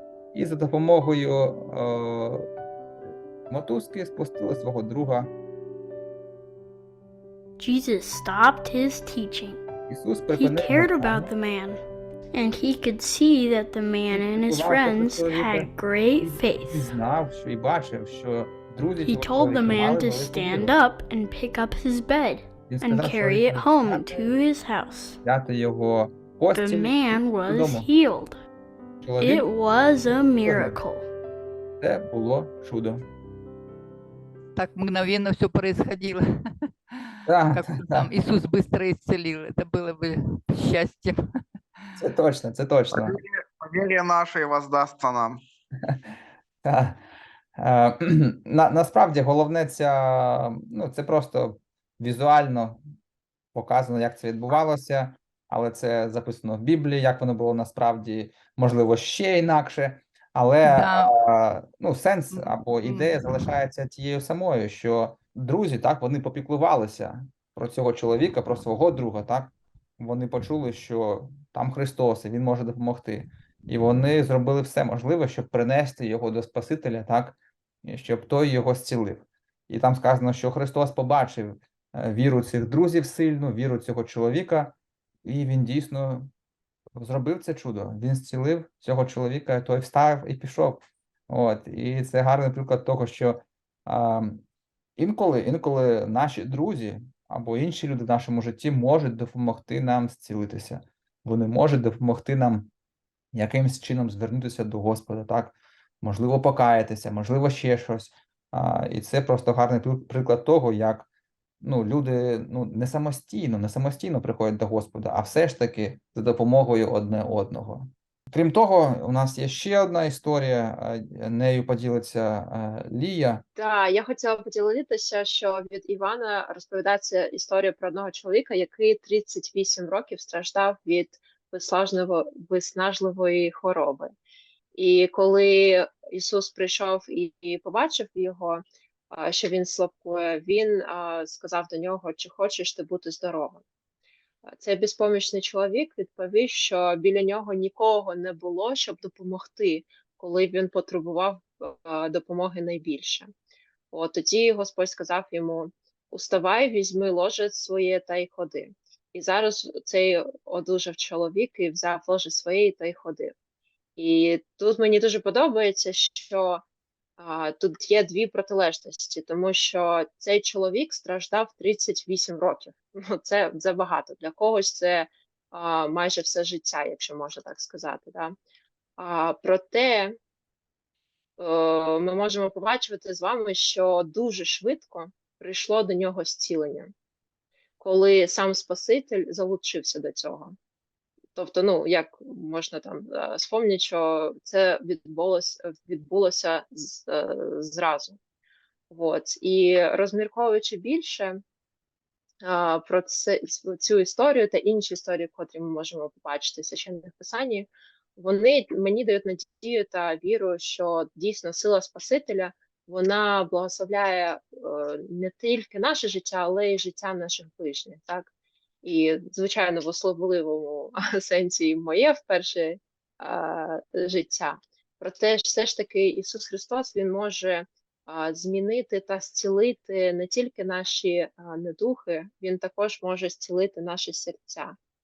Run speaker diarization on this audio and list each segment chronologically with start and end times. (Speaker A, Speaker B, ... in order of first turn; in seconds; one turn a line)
Speaker A: 0.3-2.4
Speaker A: 3.5-5.3
Speaker B: 7.6-9.6
Speaker A: 9.9-11.3
Speaker B: 10.3-11.8
Speaker B: 12.3-16.9
Speaker A: 14.1-20.8
Speaker B: 19.0-25.2
Speaker A: 22.7-24.3
Speaker A: 25.2-27.9
Speaker B: 26.5-28.4
Speaker A: 29.0-29.4
Speaker B: 29.2-31.1
Speaker A: 30.4-30.8
Speaker A: 31.8-33.0
Speaker C: 34.5-41.2
Speaker A: 37.2-38.1
Speaker A: 42.0-43.1
Speaker D: 42.9-45.4
Speaker A: 46.6-47.0
Speaker A: 47.6-52.8
Speaker A: 53.5-84.7
Speaker C: 60.6-61.2
Speaker C: 62.3-63.3
Speaker A: 85.2-86.3
Speaker A: 87.0-94.4
Speaker A: 95.0-102.7
Speaker A: 103.3-111.1
Speaker A: 111.6-123.4
Speaker E: 123.5-134.1
Speaker E: 134.7-143.6
Speaker E: 144.6-153.3
Speaker E: 153.9-163.3
Speaker E: 164.0-166.6
Speaker E: 167.2-178.3
Speaker E: 179.0-180.2
Speaker E: 181.4-186.9
Speaker E: 187.8-190.5
Speaker E: 191.3-198.2
Speaker E: 198.9-201.4
Speaker E: 202.4-218.3
Speaker E: 218.8-234.7